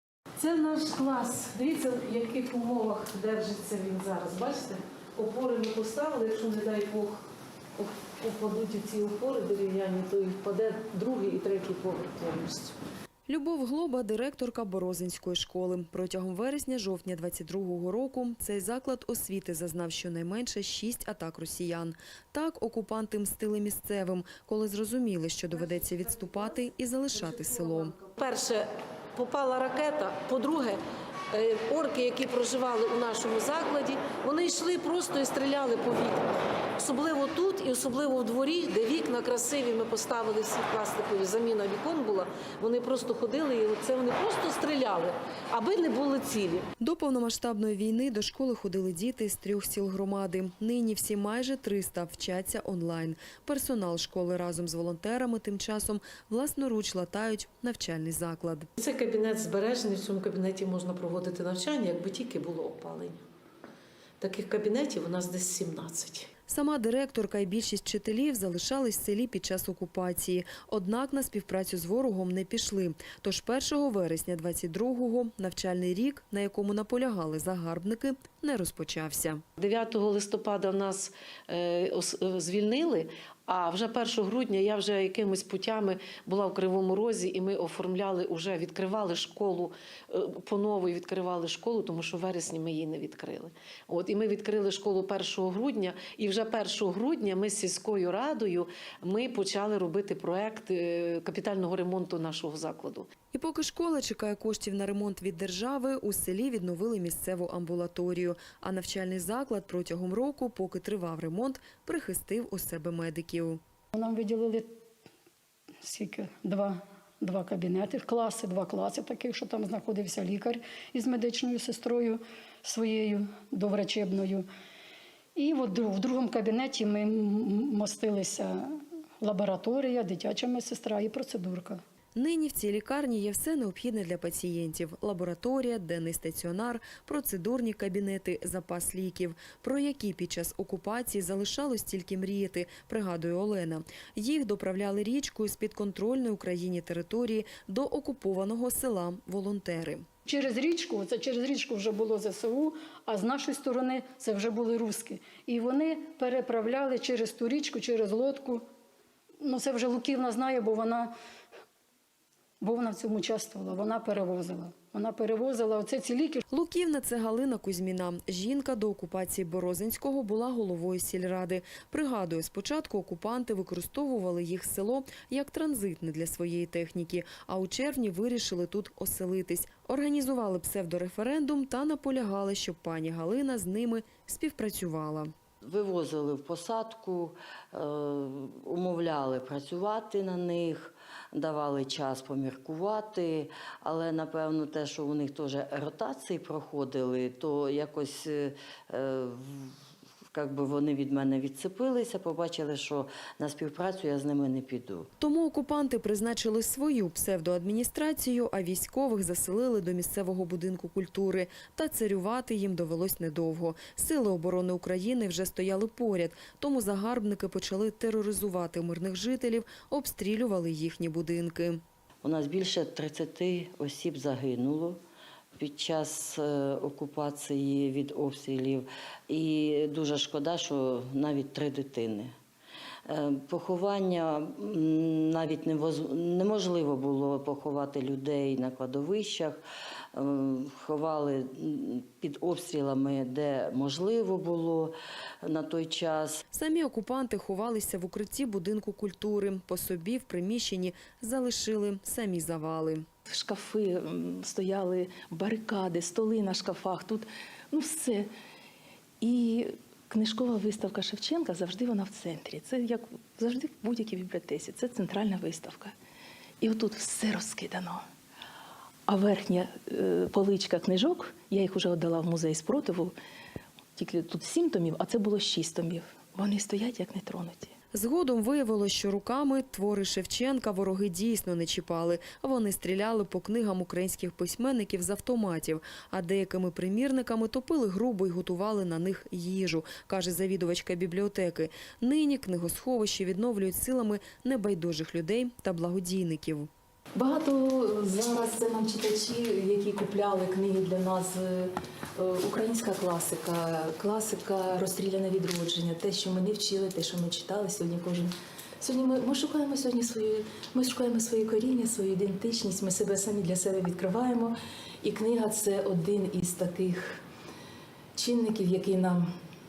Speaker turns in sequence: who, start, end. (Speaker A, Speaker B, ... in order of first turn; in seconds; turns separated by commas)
Speaker A: 0.4-7.2, Speaker A: 7.8-12.7, Speaker B: 13.3-27.9, Speaker A: 27.9-28.6, Speaker A: 29.1-30.8, Speaker A: 31.3-46.7, Speaker B: 46.8-58.7, Speaker A: 58.8-63.2, Speaker A: 64.2-66.3, Speaker B: 66.5-79.4, Speaker A: 79.6-103.1, Speaker B: 103.3-113.6, Speaker C: 113.9-114.7, Speaker C: 115.8-124.5, Speaker C: 125.3-131.8, Speaker B: 132.2-150.0, Speaker C: 150.2-158.6, Speaker C: 159.4-161.1, Speaker C: 162.6-166.4, Speaker B: 166.5-185.3, Speaker D: 185.6-199.7, Speaker D: 200.3-205.1, Speaker B: 205.2-221.8, Speaker D: 222.2-225.0, Speaker D: 225.6-232.3, Speaker D: 233.1-239.6, Speaker D: 240.1-246.4, Speaker B: 246.5-253.1, Speaker E: 253.3-258.3, Speaker E: 259.2-265.9, Speaker E: 266.6-268.0, Speaker E: 269.1-273.1, Speaker E: 273.9-277.7, Speaker B: 277.9-296.7, Speaker E: 297.1-317.2, Speaker E: 318.1-319.3